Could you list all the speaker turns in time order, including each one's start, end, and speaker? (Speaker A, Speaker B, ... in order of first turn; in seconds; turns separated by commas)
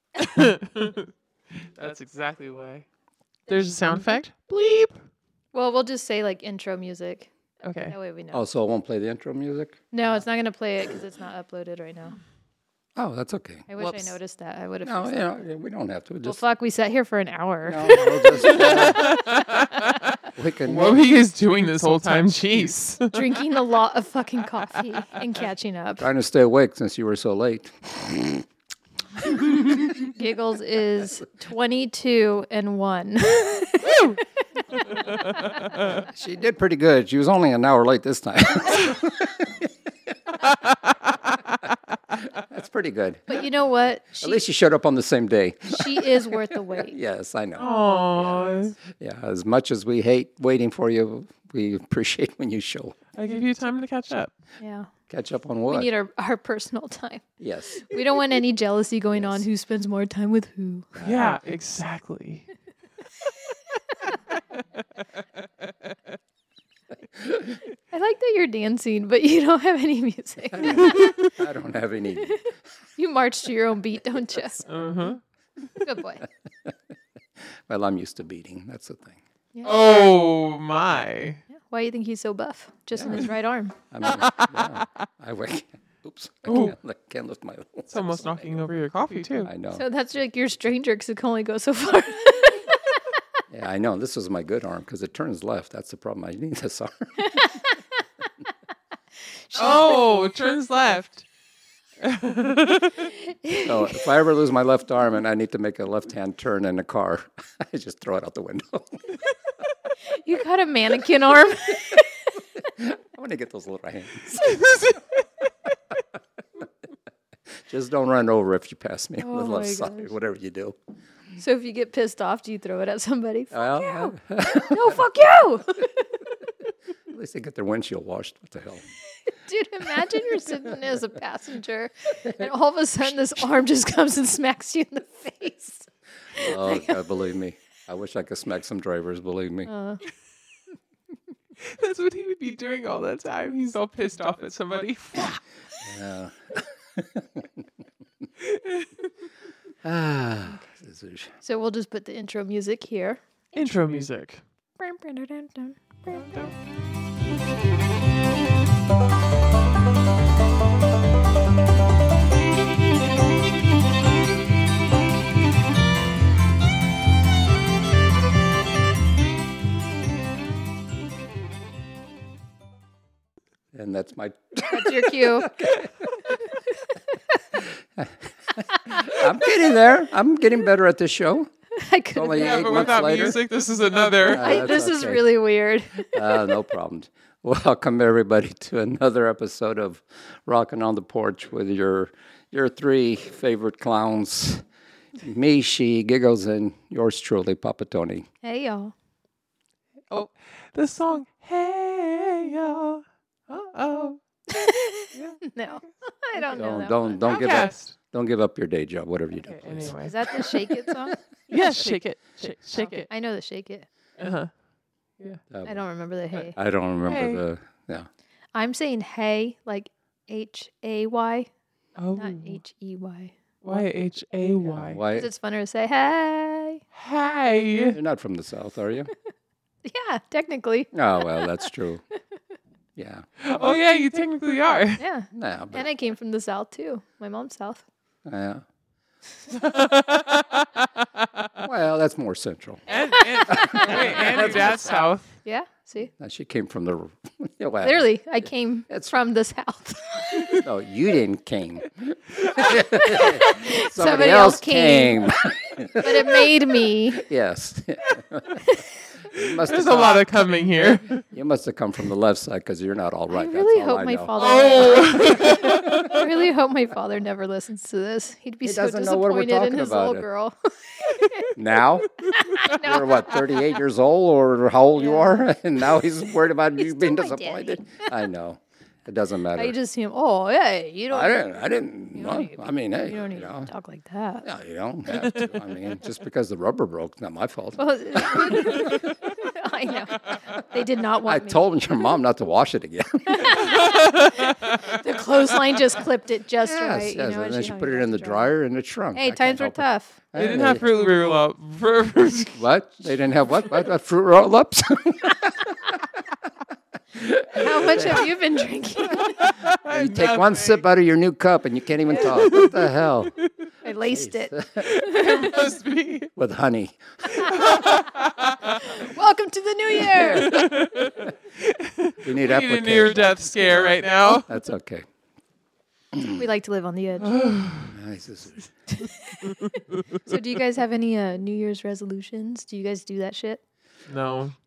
Speaker A: 0.2-1.1, Speaker A: 1.6-2.9, Speaker A: 3.5-5.0, Speaker B: 5.5-8.4, Speaker A: 7.6-8.0, Speaker C: 8.3-9.8, Speaker B: 9.9-12.2, Speaker C: 13.0-13.7, Speaker B: 13.7-15.2, Speaker A: 13.8-14.1, Speaker C: 14.8-16.4, Speaker B: 16.2-19.1, Speaker C: 17.7-19.1, Speaker A: 18.4-20.1, Speaker C: 20.4-21.0, Speaker A: 20.7-23.1, Speaker B: 23.1-26.1, Speaker C: 26.0-28.5, Speaker C: 29.2-29.9, Speaker B: 30.0-35.4, Speaker A: 33.9-34.2, Speaker A: 35.3-35.9, Speaker C: 35.9-39.9, Speaker C: 42.1-43.5, Speaker B: 43.3-44.4, Speaker C: 44.2-53.0, Speaker B: 45.7-47.0, Speaker A: 47.6-48.8, Speaker A: 53.1-54.3, Speaker B: 54.6-54.9, Speaker C: 55.1-55.9, Speaker B: 55.7-57.2, Speaker C: 57.4-57.9, Speaker B: 57.8-61.3, Speaker C: 59.1-59.5, Speaker C: 61.0-61.4, Speaker A: 61.0-62.5, Speaker C: 67.2-67.6, Speaker B: 67.9-71.3, Speaker C: 70.5-72.6, Speaker B: 73.0-74.7, Speaker A: 74.7-75.2, Speaker B: 75.8-76.3, Speaker C: 77.4-79.2, Speaker A: 79.6-81.4, Speaker B: 81.5-83.8, Speaker C: 82.9-83.3, Speaker C: 83.9-88.7, Speaker A: 84.0-84.8, Speaker A: 86.5-86.8, Speaker A: 87.9-89.5, Speaker C: 89.4-89.8, Speaker B: 89.7-93.0, Speaker C: 93.5-97.5, Speaker B: 97.3-97.6, Speaker B: 99.5-100.0, Speaker A: 99.5-101.2, Speaker A: 102.0-103.1, Speaker B: 103.2-104.0, Speaker C: 103.6-109.2, Speaker B: 110.0-112.4, Speaker C: 112.6-114.7, Speaker A: 114.3-115.2, Speaker C: 117.5-120.8, Speaker B: 119.2-120.1, Speaker B: 121.4-126.1, Speaker C: 123.5-125.0, Speaker C: 127.1-128.8, Speaker B: 129.3-137.0, Speaker C: 130.0-131.0, Speaker C: 132.2-132.5, Speaker C: 136.3-139.7, Speaker B: 139.7-140.0, Speaker A: 141.6-145.4, Speaker C: 145.8-147.7, Speaker A: 148.4-148.9, Speaker C: 149.8-151.3, Speaker B: 151.4-153.2, Speaker A: 153.5-154.4, Speaker B: 154.8-156.5, Speaker A: 156.1-156.5, Speaker C: 173.7-176.1, Speaker B: 174.6-175.6, Speaker B: 176.7-177.3, Speaker C: 177.6-181.5, Speaker B: 181.7-182.9, Speaker C: 182.1-183.4, Speaker A: 182.3-184.6, Speaker C: 184.2-185.3, Speaker B: 184.3-186.6, Speaker C: 186.0-194.6, Speaker C: 195.2-198.3, Speaker B: 198.4-198.9, Speaker A: 200.1-204.2, Speaker B: 204.5-207.3, Speaker A: 205.1-205.4, Speaker C: 206.5-211.1, Speaker A: 207.2-207.9, Speaker A: 209.5-210.3, Speaker B: 210.0-211.7, Speaker A: 211.5-213.1, Speaker B: 212.7-213.9, Speaker A: 214.2-214.5, Speaker C: 215.5-215.8, Speaker B: 215.6-216.6, Speaker C: 216.6-218.1, Speaker A: 217.1-217.4, Speaker B: 218.5-221.5, Speaker A: 222.0-222.6, Speaker B: 222.2-223.3, Speaker A: 223.6-225.0, Speaker C: 224.7-225.3, Speaker B: 225.1-226.8, Speaker A: 226.9-228.0, Speaker C: 227.9-229.1, Speaker B: 229.8-231.7, Speaker C: 230.9-232.0, Speaker C: 233.0-233.7, Speaker A: 233.4-235.0, Speaker B: 235.0-237.8, Speaker C: 235.3-235.9, Speaker C: 238.3-238.6, Speaker A: 239.5-241.5, Speaker C: 241.6-242.8, Speaker A: 242.9-245.3, Speaker B: 243.4-244.3, Speaker C: 243.5-245.0, Speaker B: 245.4-246.1, Speaker C: 246.2-248.1, Speaker B: 247.8-250.6, Speaker C: 250.6-260.2, Speaker B: 252.8-255.3, Speaker B: 256.0-257.3, Speaker B: 258.6-258.9, Speaker A: 259.6-261.2, Speaker C: 261.2-264.3, Speaker B: 263.3-271.5, Speaker A: 264.4-266.1, Speaker C: 265.4-266.1, Speaker C: 268.6-270.3, Speaker C: 271.6-272.1, Speaker B: 272.3-273.4, Speaker C: 272.6-279.8, Speaker B: 275.0-275.4, Speaker B: 276.8-277.9, Speaker B: 279.5-281.6, Speaker C: 281.1-283.7, Speaker B: 282.1-284.5, Speaker C: 284.4-289.1, Speaker A: 285.1-285.5, Speaker B: 287.8-291.7, Speaker C: 291.2-293.8, Speaker B: 293.3-298.5, Speaker A: 293.6-294.8, Speaker C: 296.6-300.9, Speaker B: 299.1-300.2, Speaker A: 300.4-302.6, Speaker C: 302.5-306.0, Speaker C: 307.1-308.4, Speaker B: 307.5-309.4, Speaker A: 309.2-310.8, Speaker C: 309.9-313.3, Speaker B: 312.1-312.3, Speaker A: 312.2-313.1, Speaker B: 313.8-315.6, Speaker C: 314.0-314.9, Speaker A: 314.8-316.3, Speaker C: 316.4-317.7, Speaker A: 317.3-318.9, Speaker B: 318.8-320.7, Speaker A: 320.0-324.5, Speaker C: 322.2-325.1, Speaker C: 326.1-326.4, Speaker B: 326.4-327.4, Speaker A: 327.2-327.9, Speaker C: 327.9-328.7, Speaker B: 329.0-329.6, Speaker B: 330.2-333.6, Speaker A: 334.1-334.6